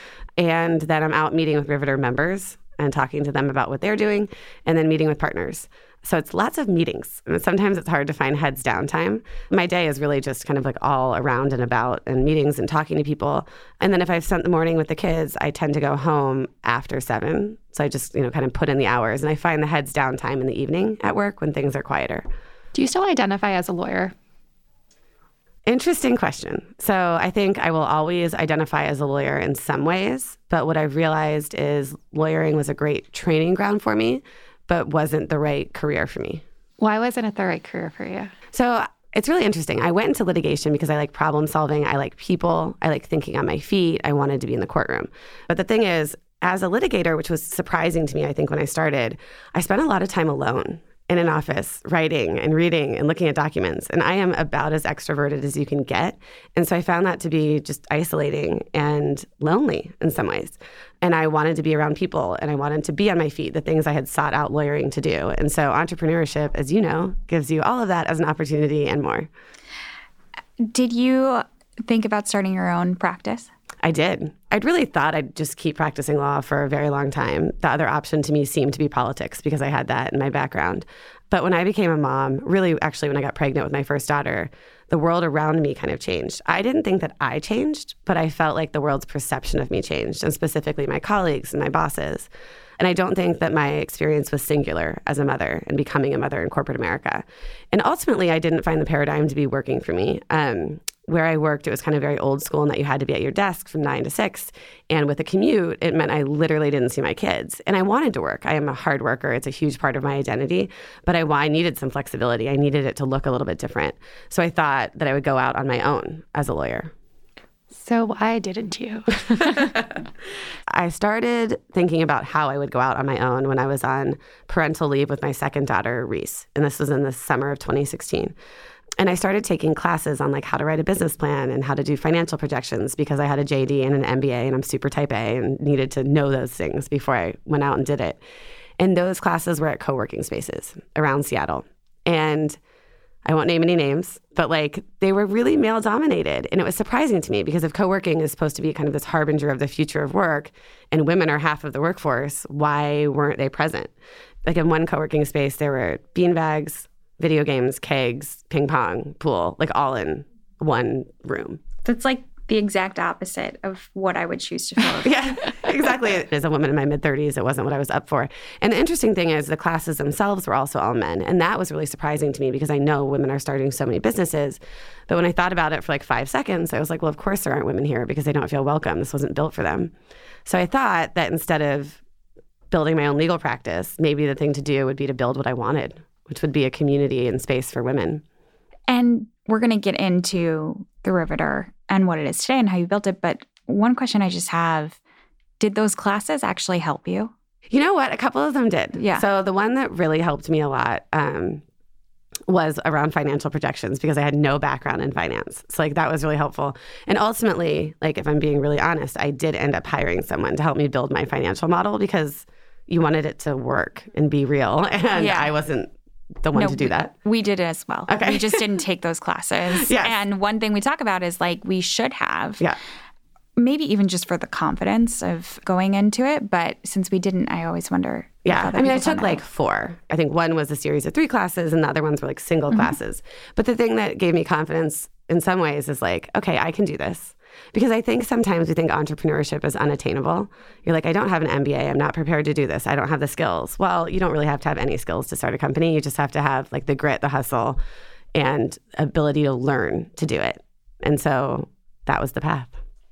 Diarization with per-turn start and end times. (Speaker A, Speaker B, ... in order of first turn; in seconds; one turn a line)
Speaker A: 0.4-22.2
Speaker B: 22.7-24.1
Speaker A: 25.7-36.4
Speaker B: 36.8-38.3
Speaker A: 38.5-69.3
Speaker C: 70.6-73.5
Speaker A: 73.8-116.9
Speaker B: 117.7-119.7
Speaker A: 120.7-128.3
Speaker A: 129.0-138.2
Speaker A: 138.8-142.6
Speaker A: 143.2-153.9
Speaker A: 154.4-161.6
Speaker C: 161.8-165.3
Speaker A: 165.0-179.9
Speaker A: 180.4-182.0
Speaker A: 182.7-188.2
Speaker C: 188.9-195.0
Speaker C: 195.6-197.3
Speaker A: 197.7-201.6
Speaker C: 199.0-199.2
Speaker A: 202.5-217.1
Speaker C: 215.1-215.5
Speaker C: 216.5-222.7
Speaker A: 218.1-218.7
Speaker A: 219.7-220.2
Speaker C: 223.6-229.4
Speaker A: 228.4-247.8
Speaker A: 248.3-252.8